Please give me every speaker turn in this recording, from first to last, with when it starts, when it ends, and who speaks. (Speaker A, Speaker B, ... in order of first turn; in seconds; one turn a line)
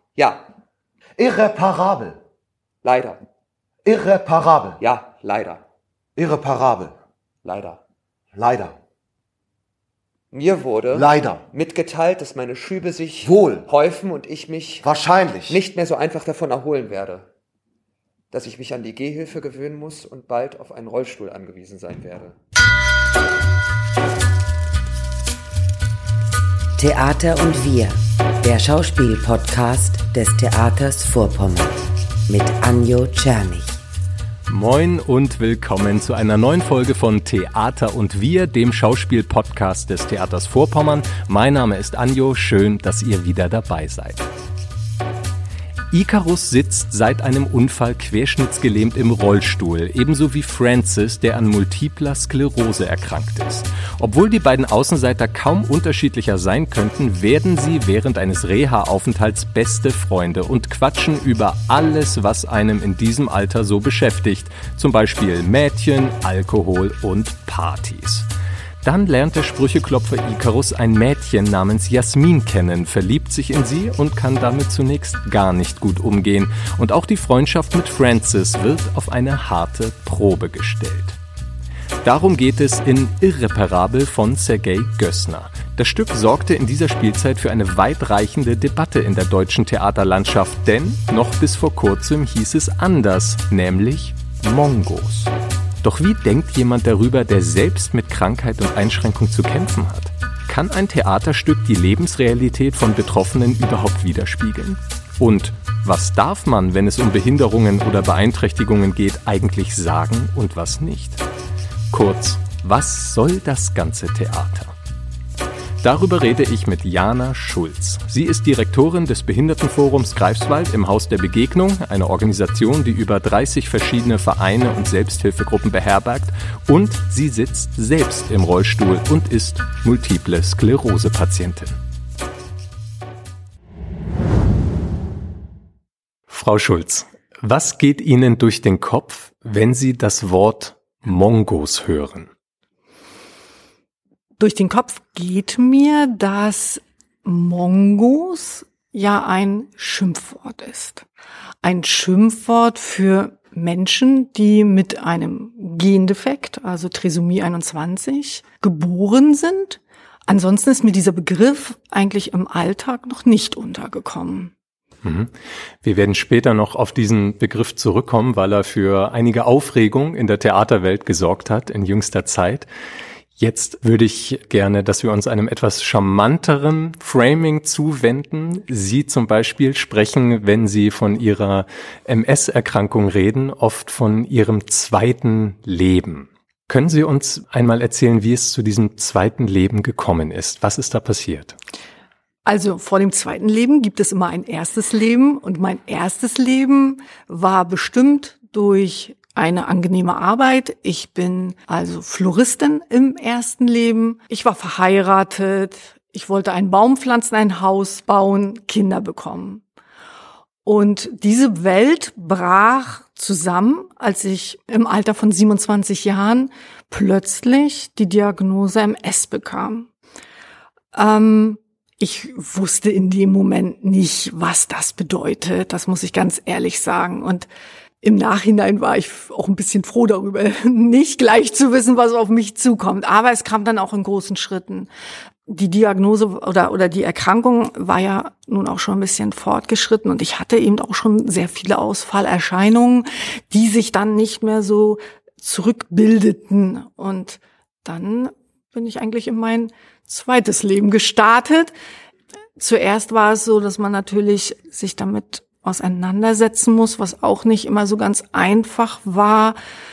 Speaker A: 0.2-0.4
Speaker B: 1.2-2.2
Speaker A: 2.8-3.2
Speaker B: 3.8-4.8
Speaker A: 4.8-5.6
Speaker B: 6.2-6.9
Speaker A: 7.4-7.8
Speaker B: 8.3-8.8
Speaker A: 10.3-14.9
Speaker B: 10.9-11.4
Speaker B: 13.2-13.7
Speaker B: 14.8-15.6
Speaker A: 15.5-17.2
Speaker A: 18.3-22.4
Speaker C: 26.8-33.8
Speaker D: 34.5-44.3
Speaker D: 45.9-68.3
Speaker D: 68.8-81.2
Speaker D: 82.0-111.2
Speaker D: 111.9-114.8
Speaker D: 115.8-131.8
Speaker D: 136.3-142.3
Speaker E: 144.4-151.0
Speaker E: 151.6-164.5
Speaker D: 165.0-172.7
Speaker D: 173.4-191.6
Speaker E: 192.4-209.6
Speaker E: 210.6-219.9
Speaker E: 220.9-227.5
Speaker E: 228.0-234.9
Speaker E: 235.5-251.7
Speaker E: 252.6-259.6